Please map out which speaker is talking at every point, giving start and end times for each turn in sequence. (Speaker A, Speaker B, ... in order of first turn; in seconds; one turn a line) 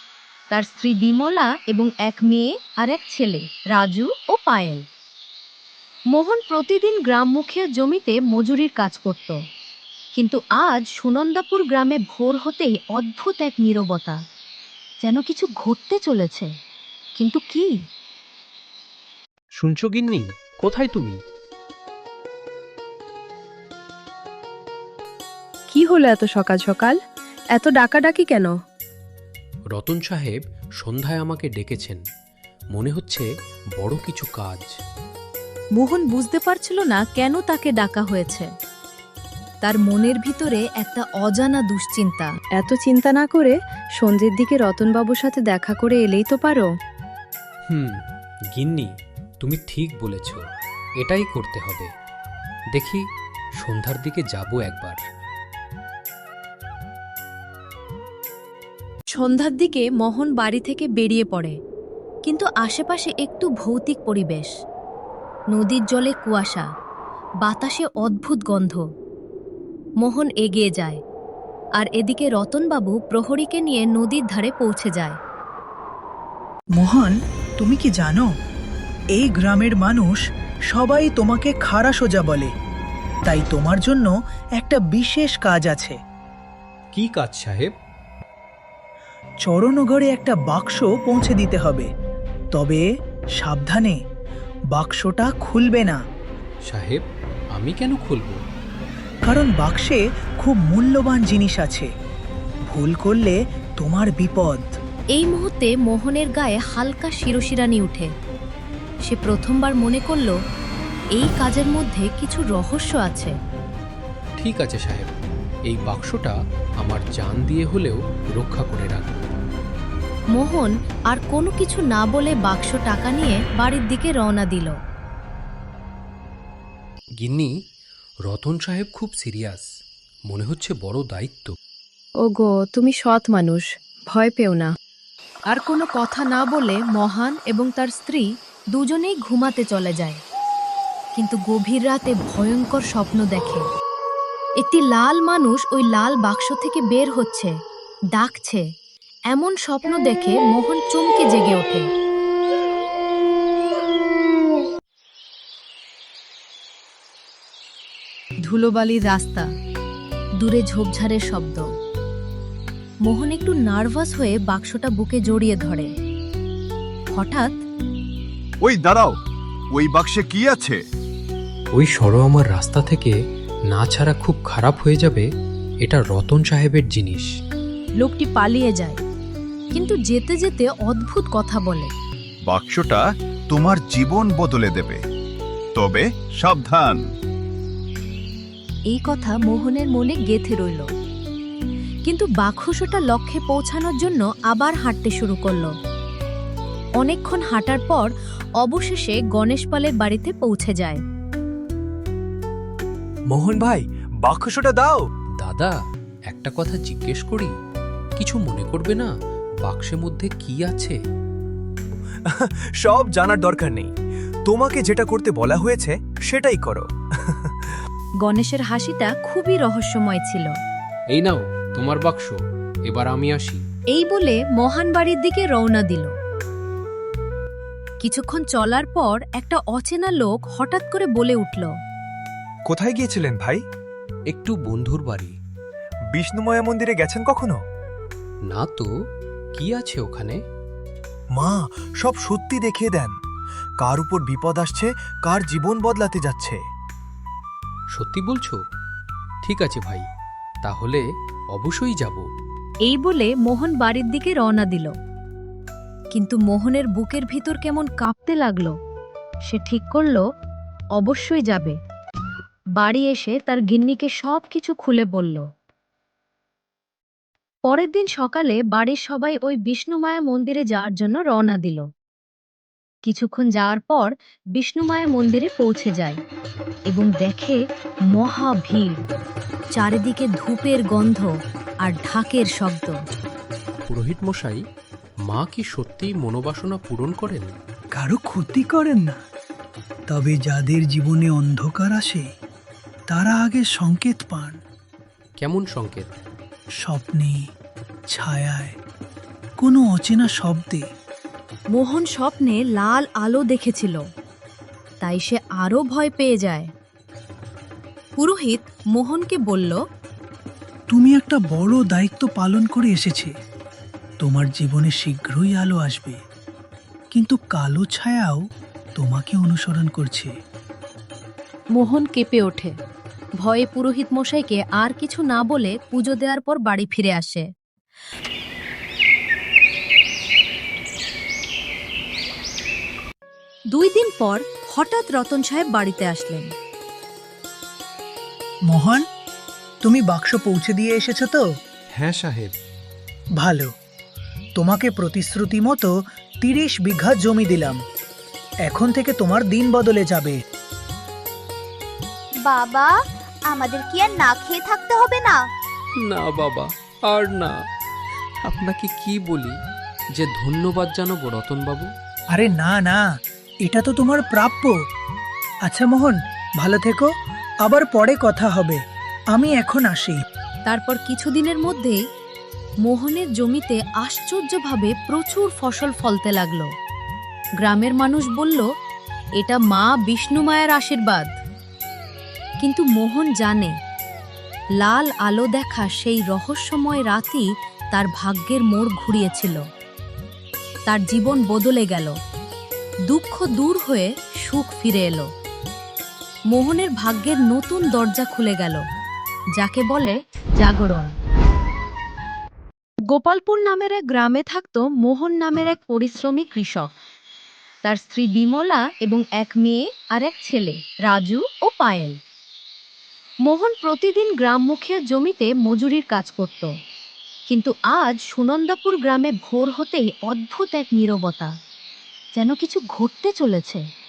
Speaker A: 0.5-4.8
Speaker A: 6.1-9.4
Speaker A: 10.1-14.2
Speaker A: 15.0-16.5
Speaker A: 17.1-17.8
Speaker B: 19.6-21.2
Speaker C: 25.7-27.0
Speaker C: 27.6-28.6
Speaker B: 29.7-32.0
Speaker B: 32.7-33.2
Speaker B: 33.8-34.7
Speaker A: 35.8-38.5
Speaker A: 39.6-42.3
Speaker C: 42.6-46.7
Speaker B: 47.7-48.0
Speaker B: 48.5-48.9
Speaker B: 49.4-50.4
Speaker B: 51.0-51.9
Speaker B: 52.7-53.0
Speaker B: 53.6-55.0
Speaker A: 59.1-61.5
Speaker A: 62.2-64.5
Speaker A: 65.5-66.7
Speaker A: 67.4-68.8
Speaker A: 70.0-71.0
Speaker A: 71.8-75.2
Speaker D: 76.8-78.2
Speaker D: 79.2-80.2
Speaker D: 80.7-82.5
Speaker D: 83.3-86.0
Speaker B: 86.9-87.7
Speaker D: 89.4-91.9
Speaker D: 92.5-92.8
Speaker D: 93.4-94.0
Speaker D: 94.7-96.0
Speaker B: 96.7-97.0
Speaker B: 97.5-98.4
Speaker D: 99.3-101.9
Speaker D: 102.7-104.7
Speaker A: 105.1-108.1
Speaker A: 109.0-110.4
Speaker A: 111.1-113.3
Speaker B: 114.4-115.1
Speaker B: 115.7-119.3
Speaker A: 120.3-124.7
Speaker B: 127.2-127.5
Speaker B: 128.2-129.7
Speaker B: 130.3-131.5
Speaker C: 132.2-134.7
Speaker A: 135.5-140.2
Speaker A: 141.2-143.6
Speaker A: 144.6-147.5
Speaker A: 148.1-148.6
Speaker A: 149.3-151.8
Speaker A: 158.4-159.5
Speaker A: 160.4-161.6
Speaker A: 163.0-165.9
Speaker A: 167.1-167.6
Speaker E: 168.6-169.2
Speaker E: 169.7-170.8
Speaker B: 171.7-173.1
Speaker B: 173.7-175.2
Speaker B: 175.8-177.3
Speaker A: 178.0-179.0
Speaker A: 179.7-181.9
Speaker E: 182.5-185.0
Speaker E: 185.8-187.0
Speaker A: 188.9-190.9
Speaker A: 192.1-195.7
Speaker A: 197.0-201.0
Speaker F: 203.3-205.0
Speaker B: 205.4-205.8
Speaker B: 206.3-207.5
Speaker B: 208.2-209.1
Speaker B: 209.6-211.0
Speaker F: 212.3-213.9
Speaker F: 214.5-217.5
Speaker A: 218.2-220.5
Speaker B: 221.1-223.6
Speaker A: 223.9-226.1
Speaker A: 228.0-231.7
Speaker F: 232.7-233.6
Speaker B: 234.3-235.3
Speaker F: 236.1-237.6
Speaker B: 238.5-238.9
Speaker B: 239.5-240.4
Speaker F: 241.3-243.1
Speaker F: 243.8-246.6
Speaker B: 247.9-248.6
Speaker B: 249.4-250.0
Speaker B: 250.6-251.0
Speaker B: 251.5-252.2
Speaker A: 252.8-254.9
Speaker A: 256.1-258.7
Speaker A: 259.5-260.2
Speaker A: 261.0-261.8
Speaker A: 262.8-265.4
Speaker A: 267.6-271.8
Speaker A: 273.0-276.2
Speaker A: 276.9-279.0
Speaker A: 279.7-281.3
Speaker A: 281.8-283.0
Speaker B: 283.8-284.6
Speaker B: 285.3-287.5
Speaker D: 288.0-289.2
Speaker D: 290.1-292.2
Speaker D: 293.1-294.6
Speaker B: 295.4-296.2
Speaker D: 296.8-297.4
Speaker D: 298.1-298.7
Speaker D: 299.6-300.8
Speaker A: 301.7-304.0
Speaker A: 305.0-306.7
Speaker A: 308.2-309.8
Speaker D: 310.9-313.3
Speaker D: 314.2-316.2
Speaker D: 317.1-318.4
Speaker D: 319.0-320.3
Speaker A: 321.7-322.7
Speaker A: 323.4-327.5
Speaker A: 333.7-336.5
Speaker D: 338.7-339.0
Speaker D: 339.8-341.4
Speaker B: 341.9-342.5
Speaker D: 343.4-343.7
Speaker D: 344.6-345.9
Speaker D: 346.4-347.8
Speaker D: 348.6-350.3
Speaker G: 352.4-352.9
Speaker G: 353.4-355.4
Speaker B: 356.0-357.6
Speaker B: 358.4-359.6
Speaker B: 360.1-361.9
Speaker D: 362.3-363.0
Speaker D: 363.6-364.7
Speaker D: 365.7-367.1
Speaker D: 367.6-368.8
Speaker D: 369.3-370.2
Speaker A: 370.6-372.0
Speaker A: 372.8-376.7
Speaker A: 377.6-378.6
Speaker A: 379.4-381.3
Speaker A: 382.6-383.7
Speaker A: 384.8-389.6
Speaker A: 390.9-392.1
Speaker A: 393.1-395.3
Speaker A: 396.5-398.8
Speaker A: 399.6-401.1
Speaker A: 403.1-406.9
Speaker A: 407.8-412.2
Speaker A: 413.4-416.7
Speaker A: 417.5-421.5
Speaker A: 422.3-423.8